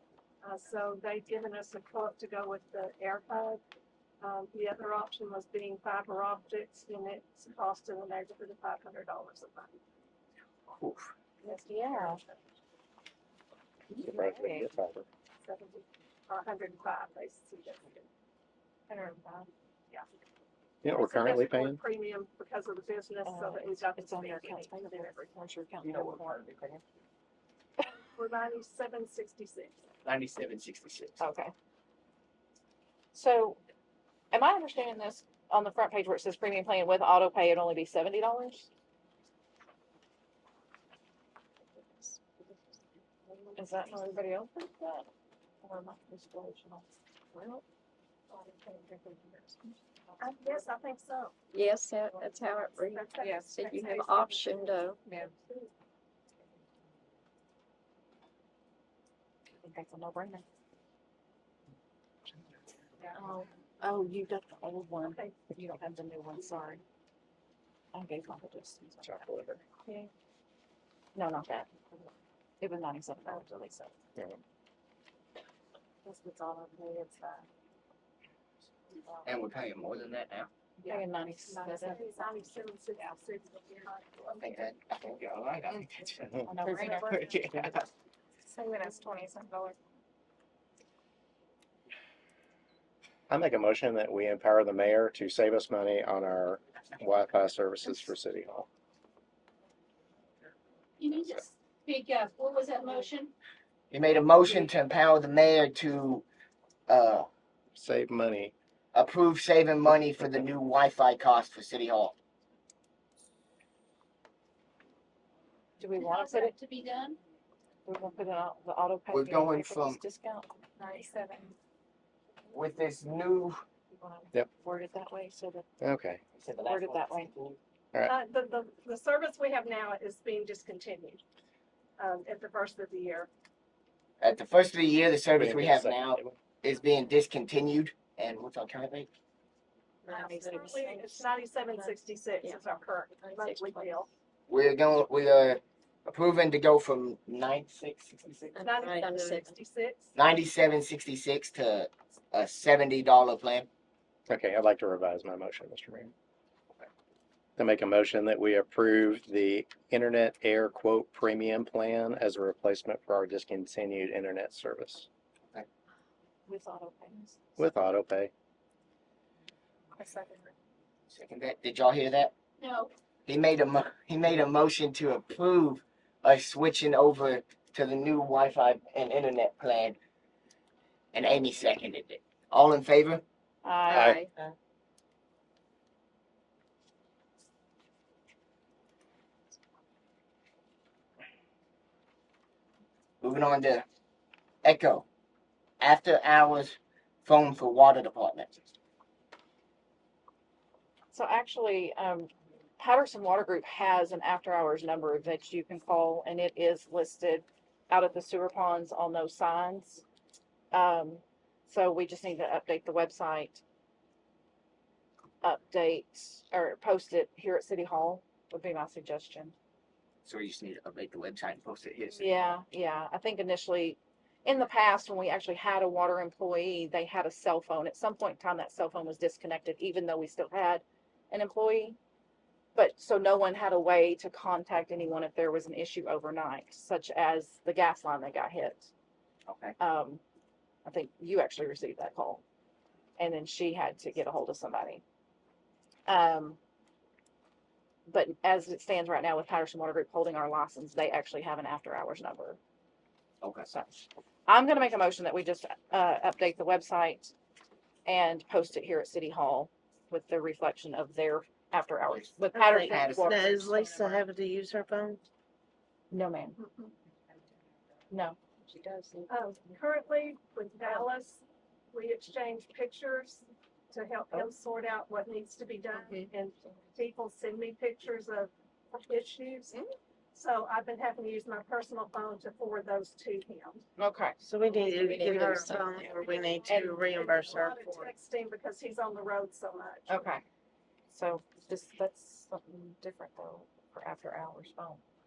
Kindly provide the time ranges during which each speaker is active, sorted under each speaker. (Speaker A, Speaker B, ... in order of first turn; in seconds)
Speaker A: 0.4-3.6, 4.2-9.8, 15.4-18.1, 20.9-25.2, 28.2-29.8, 50.2-51.4, 52.9-54.6, 80.9-84.8, 86.8-87.5, 128.1-131.2, 132.0-133.3, 140.1-144.1, 148.6-150.1, 269.3-278.5, 279.0-279.8, 280.3-283.8, 286.2-290.2
Speaker B: 10.7-11.1, 26.4-26.8, 30.1-31.1, 79.2-80.5, 84.3-86.3, 87.1-87.7, 103.9-106.2, 106.9-107.3, 108.9-112.1, 119.1-120.0, 122.5-123.6, 126.4-127.6, 134.2-139.1, 144.5-148.6, 150.2-153.7, 171.1-172.3, 173.3-179.9, 181.1-183.2, 193.2-193.8, 194.6-195.0, 195.8-198.6, 220.2-222.2, 239.5-239.8, 262.1-264.2
Speaker C: 11.4-12.2, 13.9-14.7, 18.9-19.5, 23.2-26.4, 31.2-31.5, 33.1-33.6, 34.3-38.7, 43.6-45.1, 45.6-47.6, 48.4-50.6, 53.2-53.5, 59.6-60.4, 63.1-66.8, 67.9-70.1, 71.1-71.7, 72.6-73.9, 76.0-77.5, 78.9-79.3, 80.8-82.4, 86.4-87.7, 88.4-89.8, 115.8-116.5, 117.8-121.1, 124.0-125.7, 126.6-127.3, 166.5-167.7, 170.0-170.3, 183.6-184.3, 201.1-210.0, 210.7-213.6, 215.4-219.5, 222.1-232.0, 232.8-238.9, 239.8-240.2, 240.8-242.4, 243.2-245.0, 246.1-246.6, 248.1-252.6, 253.7-257.3, 258.1-263.5, 266.1-266.6, 268.1-269.3, 276.0-276.3, 284.0-284.4, 285.2-285.7, 286.7-287.0, 290.1-290.4, 291.1-295.0
Speaker D: 14.0-15.1, 20.8-21.8, 69.0-69.5, 93.3-98.7, 107.7-108.5, 125.8-126.2, 135.3-136.4, 154.3-156.1, 157.6-165.1, 167.6-168.3, 183.9-184.2
Speaker E: 51.5-55.0, 140.2-141.1, 141.8-144.1, 148.5-149.5, 284.7-286.5
Speaker F: 101.0-103.0, 116.1-117.1, 120.8-121.4, 274.6-275.6
Speaker G: 262.5-265.2, 284.4-288.1